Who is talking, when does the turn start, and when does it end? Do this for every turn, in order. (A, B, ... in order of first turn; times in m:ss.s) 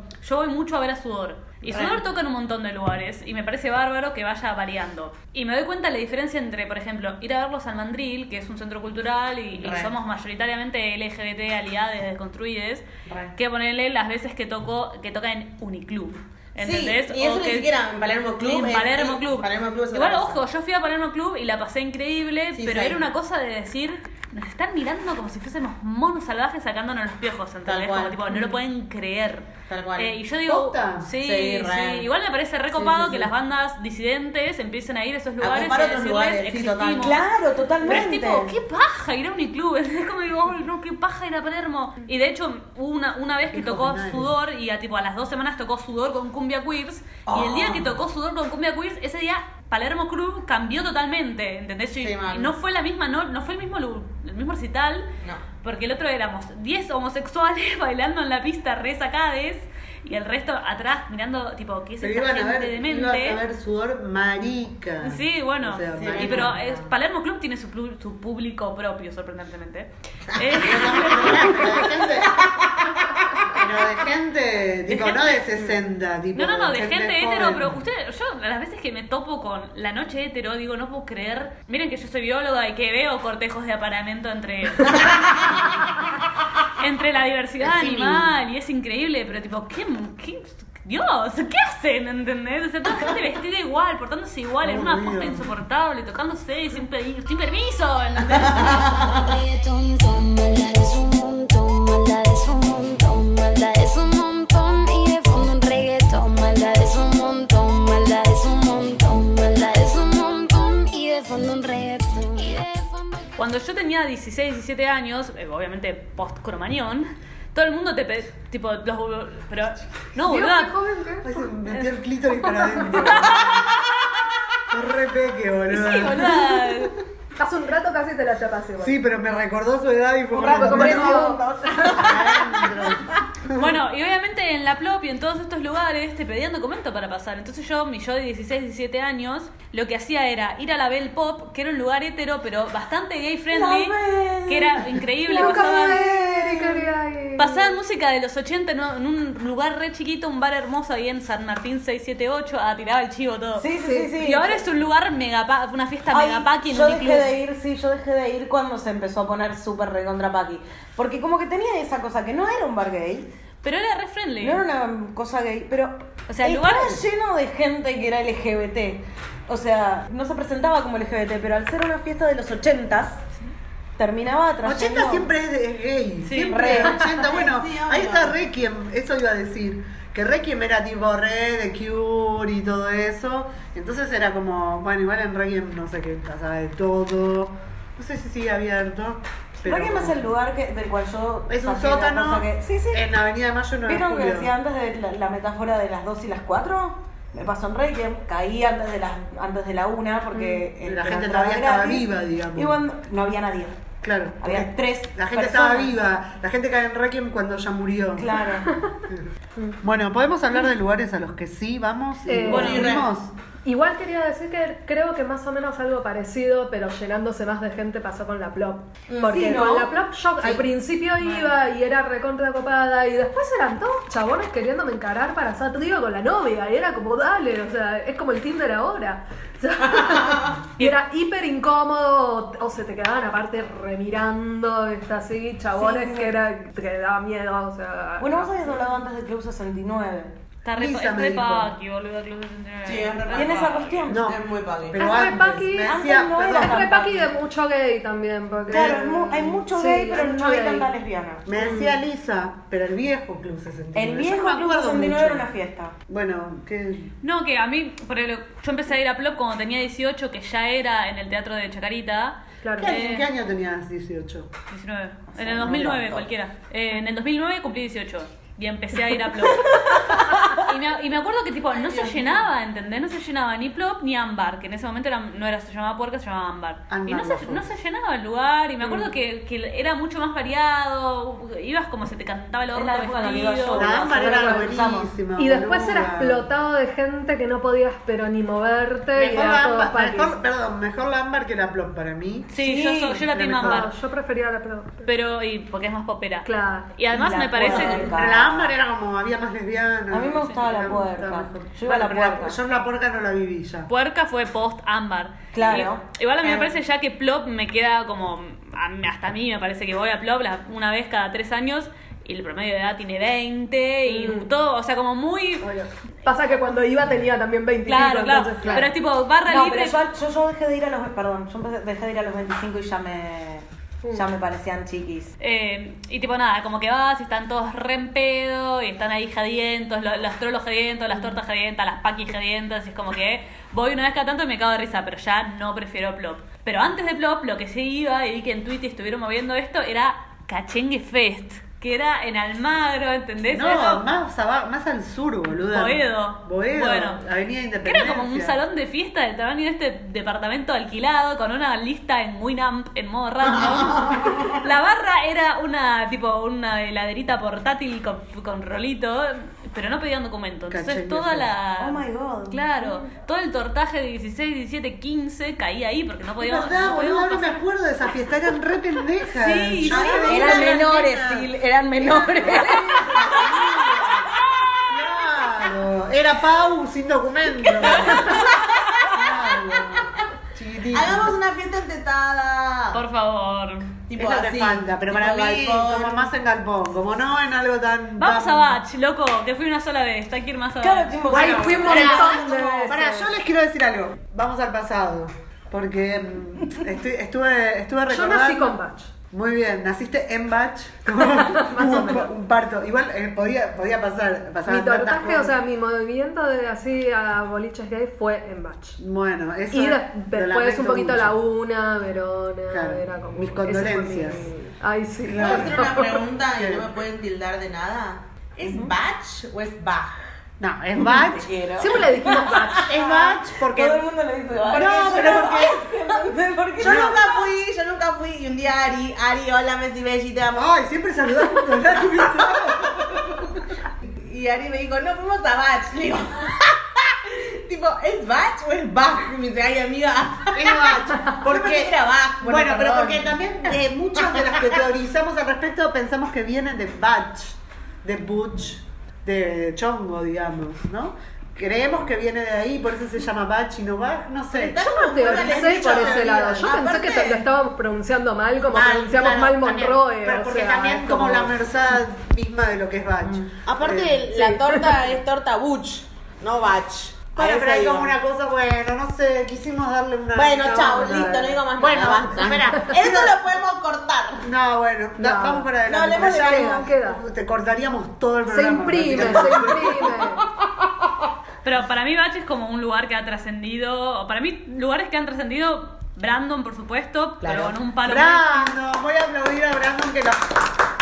0:00.2-0:17.7 A
0:01.7-0:02.0 B
0:09.6-0:09.9 B
0:16.6-0:20.4 B
0:18.4-0:37.2 A
0:22.6-0:23.0 B
0:27.7-0:28.5 B
0:29.7-0:30.1 B
0:30.5-0:31.1 C
0:31.2-0:32.1 B
0:32.7-0:33.3 B
0:35.4-0:37.2 B
0:37.0-0:38.5 D
0:37.8-0:55.1 A
0:43.5-0:44.3 C
0:47.3-0:47.9 B
0:52.0-0:52.5 B
0:55.6-1:03.4 A
1:02.0-1:06.8 C
1:05.0-1:11.9 A
1:06.0-1:06.6 B
1:10.4-1:12.9 B
1:10.6-1:12.5 C
1:13.5-1:17.8 C
1:14.9-1:15.5 A
1:16.4-1:25.8 A
1:26.8-1:38.8 A
1:27.6-1:28.3 C
1:34.6-1:35.5 C
1:38.5-1:53.3 E
1:53.4-2:00.7 A
2:00.2-2:01.4 F
2:01.2-2:03.7 C
2:02.7-2:03.6 A
2:04.7-2:06.9 C
2:05.7-2:07.0 A
2:07.4-2:09.0 F
2:08.8-2:11.4 C
2:10.4-2:12.7 B
2:10.4-2:11.4 F
2:11.9-2:13.8 C
2:13.6-2:24.0 A
2:23.5-2:26.9 D
2:24.5-2:26.0 A
2:25.3-2:27.7 F
2:27.4-2:33.7 A
2:33.6-2:34.6 D
2:33.8-2:34.1 F
2:34.2-2:37.3 A
2:36.1-2:43.3 D
2:43.6-2:44.6 A
2:44.4-2:53.2 D
2:46.3-2:47.0 A
2:54.0-2:55.3 D
2:54.6-3:10.2 C
2:56.2-2:56.7 A
2:56.5-2:57.1 D
2:57.0-2:58.3 B
3:09.6-3:13.0 D
3:11.5-3:14.5 C
3:13.9-3:23.8 D
3:20.3-3:20.6 F
3:20.8-3:22.8 C
3:24.0-3:28.3 C
3:24.4-3:25.9 D
3:28.2-3:28.7 D
3:29.8-3:33.3 C
3:32.3-3:32.9 F
3:32.5-3:33.1 B
3:33.6-3:58.8 F
3:39.1-3:39.6 B
3:39.3-3:39.9 D
3:41.2-3:41.5 A
3:55.8-3:56.4 D
3:58.2-4:00.3 D
4:00.6-4:04.1 A
4:00.8-4:01.7 C
4:02.8-4:05.1 B
4:03.3-4:04.2 D
4:04.1-4:06.9 C
4:05.0-4:09.0 F
4:05.8-4:07.3 D
4:08.7-4:09.6 C
4:08.7-4:11.5 D
4:09.7-4:10.9 F
4:11.5-4:15.5 C
4:11.6-4:11.9 F
4:14.0-4:16.0 D
4:16.1-4:17.1 C
4:17.2-4:23.3 A
4:22.6-4:22.9 F
4:22.8-4:24.5 C
4:24.7-4:44.2 A
4:25.4-4:26.2 D
4:29.7-4:30.5 D
4:36.9-4:37.7 C
4:42.7-4:45.1 D
4:43.7-4:46.5 C
4:44.3-4:44.7 F
4:45.4-4:50.4 F
4:49.2-4:52.5 C
4:52.5-4:53.9 A
4:52.6-4:53.3 D
4:53.3-4:53.9 C
4:53.6-4:55.1 F
4:55.1-4:58.2 A
4:56.4-4:56.9 F
4:57.1-4:58.7 D
4:57.6-5:03.9 C
5:00.1-5:02.6 D
5:03.9-5:15.7 A
5:05.5-5:06.0 D
5:06.4-5:06.7 B
5:14.1-5:14.5 F
5:15.6-5:18.9 F
5:17.9-5:20.0 A
5:19.5-5:25.3 D
5:25.4-5:44.0 A
5:43.5-5:48.6 C
5:45.7-5:47.2 A
5:47.8-6:07.6 A
6:00.7-6:01.5 C
6:01.8-6:03.0 D
6:06.4-6:11.4 C
6:09.3-6:11.0 A
6:10.2-6:13.1 D
6:12.1-6:14.3 C
6:13.2-6:13.6 B
6:14.9-6:18.4 C
6:18.0-6:18.6 A
6:19.1-6:21.4 C
6:20.9-6:23.0 B
6:22.9-6:24.0 A
6:24.1-6:26.3 B
6:24.2-6:28.8 C
6:28.2-6:31.4 A
6:30.8-6:33.0 D
6:31.3-6:33.3 F
6:31.3-6:38.8 C
6:38.1-6:39.1 F
6:39.3-6:45.6 C
6:41.2-6:42.3 F
6:44.7-6:49.0 F
6:49.0-6:51.4 C
6:49.7-6:56.2 F
6:52.7-6:54.5 C
6:55.2-6:56.0 C
6:55.3-7:00.1 B
6:56.5-6:56.9 C
7:00.6-7:01.5 C
7:01.0-7:07.2 D
7:01.8-7:03.0 F
7:02.9-7:04.0 C
7:04.7-7:05.9 C
7:06.8-7:10.6 B
7:06.8-7:07.2 C
7:10.5-7:13.4 C
7:14.2-7:23.4 B
7:20.5-7:36.8 C
7:24.3-7:24.7 B
7:34.5-7:37.5 B
7:34.8-7:41.4 F
7:38.7-7:44.3 C
7:43.6-7:48.2 B
7:44.4-7:44.8 F
7:47.4-7:53.4 C
7:50.3-7:54.5 B
7:51.0-7:51.5 F
7:54.4-8:00.2 C
7:55.2-7:57.2 F
7:55.9-7:56.8 B
7:58.5-8:00.4 F
8:01.6-8:08.8 A
8:07.4-8:07.8 B
8:08.0-8:10.6 C